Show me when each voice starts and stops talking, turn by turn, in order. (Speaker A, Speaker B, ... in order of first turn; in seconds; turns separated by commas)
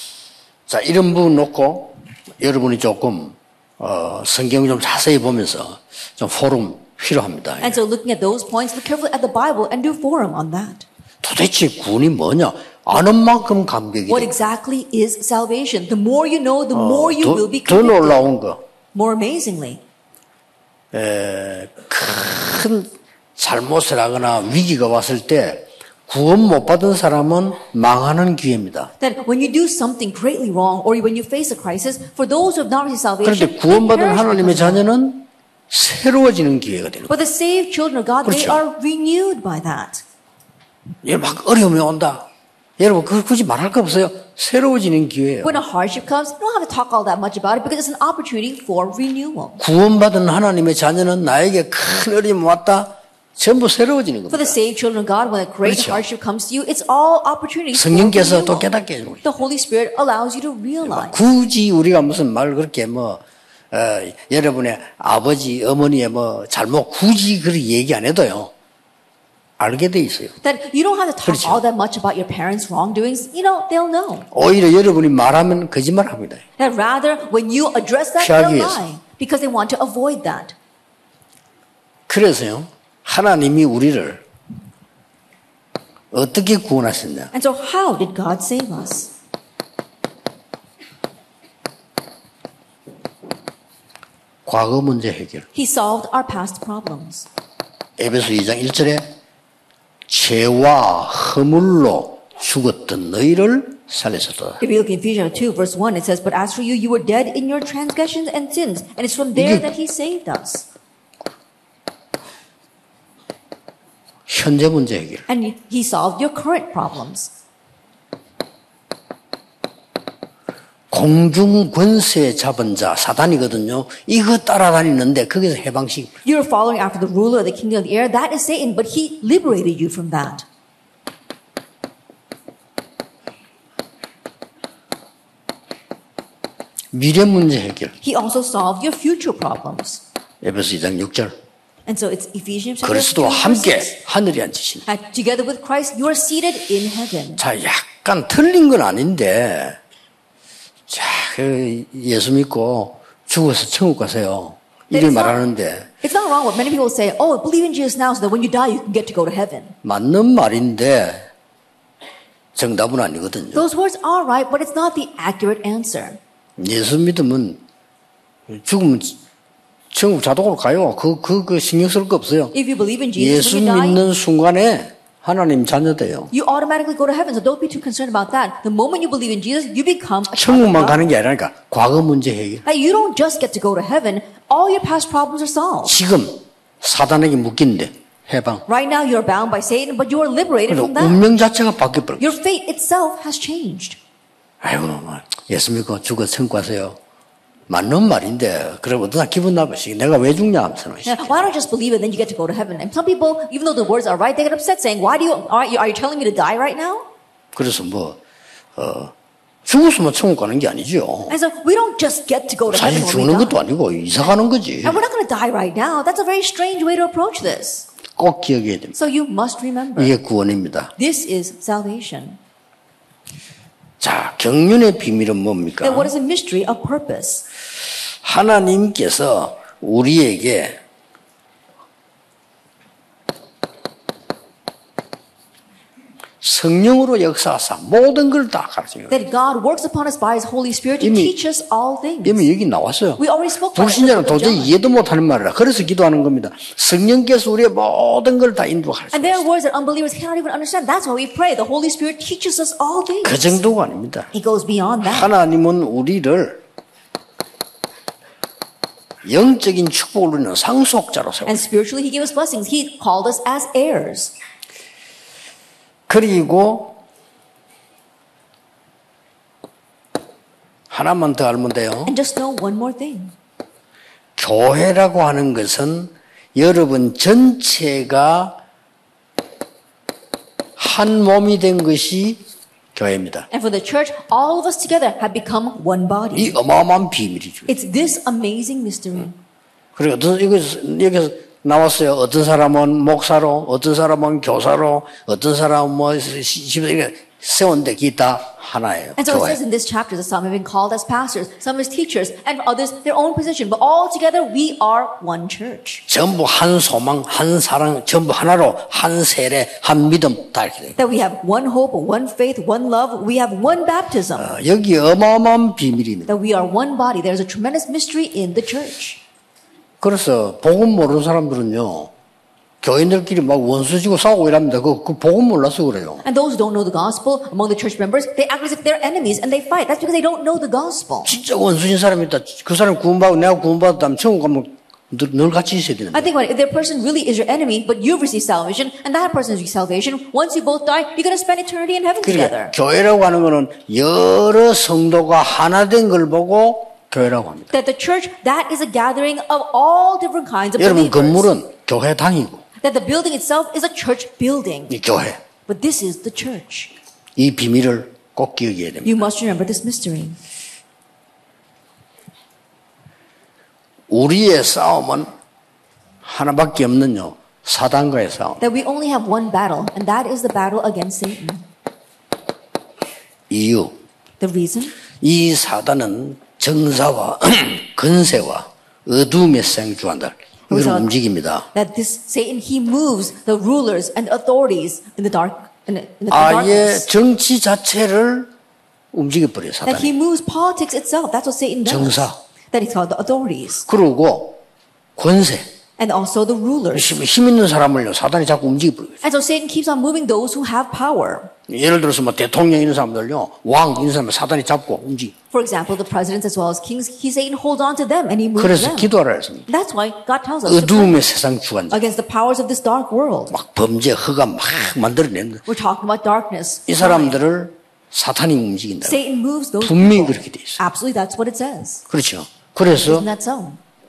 Speaker A: 0.7-7.8, Speaker B: 7.6-10.9, Speaker A: 11.2-14.4, Speaker B: 14.1-18.3, Speaker A: 16.7-18.6, Speaker B: 18.9-19.8, Speaker A: 20.9-28.9, Speaker B: 29.0-34.8, Speaker A: 33.2-37.1, Speaker B: 37.1-40.0, Speaker A: 38.2-38.6, Speaker A: 41.0-42.3, Speaker A: 42.8-45.6, Speaker B: 45.4-49.6, Speaker A: 49.6-54.6, Speaker B: 54.3-58.7, Speaker A: 55.6-56.0, Speaker A: 57.7-59.2, Speaker B: 59.2-61.2, Speaker A: 60.8-68.5, Speaker A: 69.6-70.4, Speaker B: 70.4-74.3, Speaker A: 71.2-71.6, Speaker A: 74.3-76.4, Speaker B: 76.6-80.5, Speaker A: 78.2-78.8, Speaker A: 82.1-84.2, Speaker A: 86.1-87.3, Speaker B: 87.3-89.1, Speaker A: 94.5-95.5, Speaker B: 95.5-97.3, Speaker A: 98.0-99.1, Speaker A: 100.1-104.6, Speaker B: 104.6-110.7, Speaker A: 109.3-109.7, Speaker A: 114.3-115.3, Speaker B: 115.3-117.3, Speaker A: 120.9-126.1, Speaker B: 126.2-130.4, Speaker A: 136.9-137.9, Speaker B: 138.0-140.0, Speaker A: 140.4-141.3, Speaker B: 141.9-144.0, Speaker A: 142.8-144.9, Speaker B: 144.9-147.4, Speaker A: 147.4-149.8, Speaker A: 150.9-155.9, Speaker B: 154.9-155.4, Speaker B: 156.0-159.8, Speaker A: 159.8-161.3, Speaker A: 162.6-163.7, Speaker B: 163.5-166.2, Speaker A: 166.6-167.6, Speaker A: 168.5-169.2, Speaker A: 169.9-172.6, Speaker B: 172.5-174.0, Speaker A: 173.2-176.3, Speaker B: 176.3-181.0, Speaker A: 180.3-182.6, Speaker B: 182.7-186.0, Speaker A: 185.8-188.6, Speaker B: 188.7-191.2, Speaker A: 190.7-192.3, Speaker B: 192.2-194.0, Speaker A: 194.6-197.0, Speaker A: 197.7-201.5, Speaker B: 201.1-207.1, Speaker A: 207.5-208.2, Speaker A: 208.8-209.1, Speaker A: 209.7-211.3, Speaker B: 211.3-213.6, Speaker A: 212.7-215.0, Speaker B: 214.8-217.9, Speaker A: 218.2-219.0, Speaker B: 218.9-220.1, Speaker A: 220.0-220.9, Speaker B: 221.0-222.4, Speaker A: 224.0-226.1, Speaker B: 225.8-227.5, Speaker A: 228.2-230.8, Speaker A: 236.4-239.2, Speaker B: 239.1-242.4, Speaker A: 241.0-241.3, Speaker A: 242.2-243.2, Speaker B: 243.2-244.8, Speaker A: 243.8-249.4, Speaker B: 249.1-253.6, Speaker A: 253.2-254.3, Speaker B: 254.3-255.3, Speaker A: 255.0-256.6, Speaker A: 259.2-261.6, Speaker B: 261.4-264.3, Speaker A: 266.1-267.0, Speaker A: 270.9-272.1, Speaker B: 272.1-273.3, Speaker A: 274.4-278.6, Speaker A: 280.8-282.4, Speaker A: 282.9-283.5, Speaker B: 283.5-286.6, Speaker A: 286.3-287.7, Speaker B: 287.7-289.4, Speaker A: 290.0-299.6, Speaker B: 299.2-306.0, Speaker A: 306.1-311.0, Speaker B: 311.0-314.5, Speaker A: 314.4-316.3, Speaker B: 316.3-319.2, Speaker A: 320.0-322.1, Speaker A: 322.8-326.2, Speaker B: 326.2-331.3, Speaker A: 331.2-336.3, Speaker B: 336.1-342.7, Speaker A: 342.2-347.7, Speaker B: 347.7-351.5, Speaker A: 350.8-352.6, Speaker B: 352.8-354.9, Speaker A: 354.9-355.4, Speaker B: 355.7-356.9, Speaker A: 357.4-359.3, Speaker B: 359.0-360.4, Speaker A: 364.1-365.3, Speaker A: 366.2-368.6, Speaker B: 368.6-371.7, Speaker A: 373.5-373.9, Speaker B: 374.4-374.9, Speaker A: 375.2-381.7, Speaker B: 380.7-381.1, Speaker B: 381.7-387.1, Speaker A: 386.3-388.5, Speaker A: 389.1-390.1, Speaker B: 389.9-393.9, Speaker A: 391.9-392.4, Speaker A: 393.9-394.6, Speaker A: 395.2-395.7, Speaker B: 396.0-397.2, Speaker A: 396.9-399.2, Speaker B: 399.2-401.5, Speaker A: 401.7-405.4, Speaker B: 405.5-409.1, Speaker A: 408.6-409.7, Speaker B: 409.7-411.2, Speaker A: 410.7-412.0, Speaker B: 411.9-413.5, Speaker A: 413.5-415.7, Speaker B: 415.7-417.4, Speaker A: 416.9-419.2, Speaker B: 419.0-422.1, Speaker A: 419.8-420.8, Speaker A: 422.1-423.3, Speaker B: 422.9-423.8